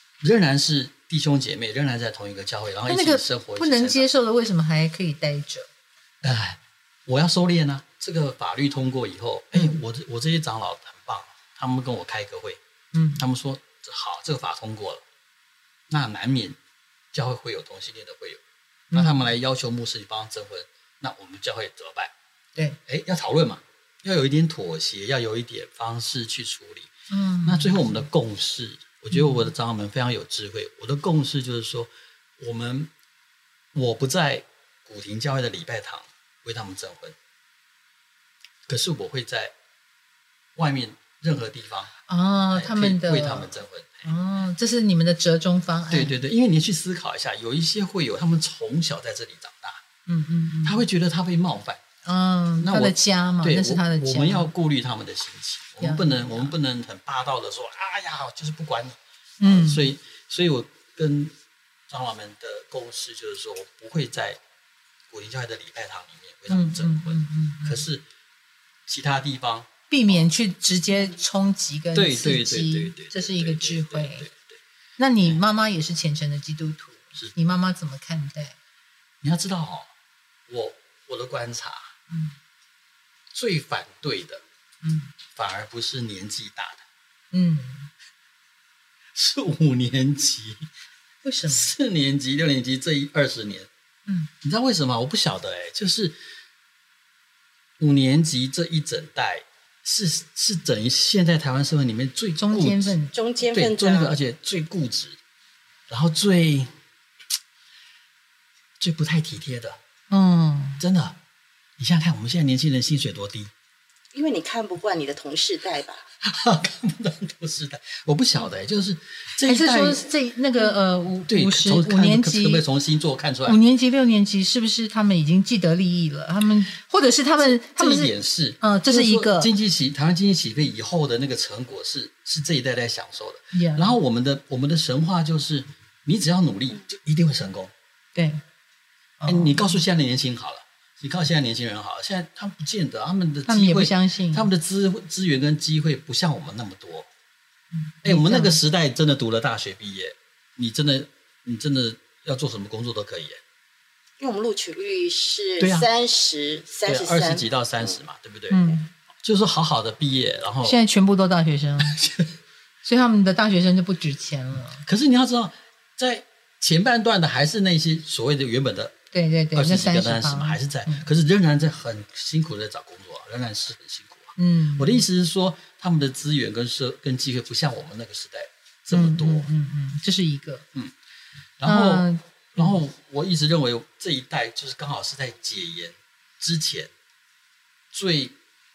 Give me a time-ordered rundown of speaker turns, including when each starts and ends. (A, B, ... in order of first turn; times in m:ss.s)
0:00.2-0:04.1 A
0:02.9-0:05.7 B
0:06.2-0:12.6 A
0:09.5-0:09.8 B
0:12.9-0:13.2 B
0:13.2-0:15.0 A
0:15.9-0:16.6 A
0:17.1-0:22.1 A
0:18.9-0:19.2 B
0:22.9-0:26.9 A
0:27.1-0:27.8 B
0:27.4-0:32.9 A
0:29.1-0:29.5 B
0:33.7-0:37.2 A
0:38.7-0:39.5 A
0:40.6-0:41.9 A
0:42.1-0:46.1 B
0:42.5-0:44.1 A
0:45.9-0:49.8 A
0:50.1-0:50.8 B
0:50.6-0:51.8 A
0:52.0-0:54.5 B
0:52.6-1:01.3 A
0:55.8-0:56.5 B
0:59.4-0:59.9 B
1:01.9-1:04.4 A
1:05.1-1:08.0 A
1:06.5-1:07.9 B
1:08.9-1:09.7 A
1:09.9-1:14.3 B
1:12.0-1:14.6 A
1:15.0-1:18.6 B
1:19.2-1:19.9 A
1:20.5-1:21.9 A
1:22.1-1:22.4 B
1:23.3-1:24.4 A
1:24.8-1:25.1 B
1:25.3-1:26.8 A
1:27.3-1:27.9 B
1:29.1-1:30.7 A
1:31.2-1:31.7 B
1:31.5-1:33.7 A
1:34.1-1:34.3 B
1:34.4-1:36.2 A
1:37.8-1:43.0 A
1:42.4-1:43.1 B
1:43.1-1:44.2 C
1:43.5-1:45.2 A
1:45.9-1:46.7 A
1:48.8-1:49.8 A
1:50.1-1:50.8 B
1:50.8-1:51.2 A
1:51.8-1:53.5 A
1:54.1-1:56.1 C
1:56.2-2:00.0 A
1:59.4-2:02.6 B
2:01.3-2:03.6 A
2:03.4-2:09.5 B
2:07.6-2:17.7 A
2:13.5-2:14.0 B
2:18.2-2:18.4 B
2:19.2-2:19.8 B
2:19.3-2:27.1 A
2:23.5-2:24.5 B
2:27.7-2:28.6 B
2:28.0-2:33.4 A
2:34.2-2:37.5 C
2:35.6-2:35.9 A
2:36.9-2:38.6 A
2:38.5-2:38.9 B
2:39.2-2:40.8 A
2:40.6-2:42.0 B
2:41.9-2:42.3 A
2:42.8-2:44.8 B
2:44.8-2:48.9 A
2:49.1-2:51.1 B
2:49.5-2:59.5 A
2:54.4-2:55.0 B
2:58.9-3:00.7 B
3:01.6-3:06.9 A
3:01.7-3:02.8 B
3:07.9-3:08.4 A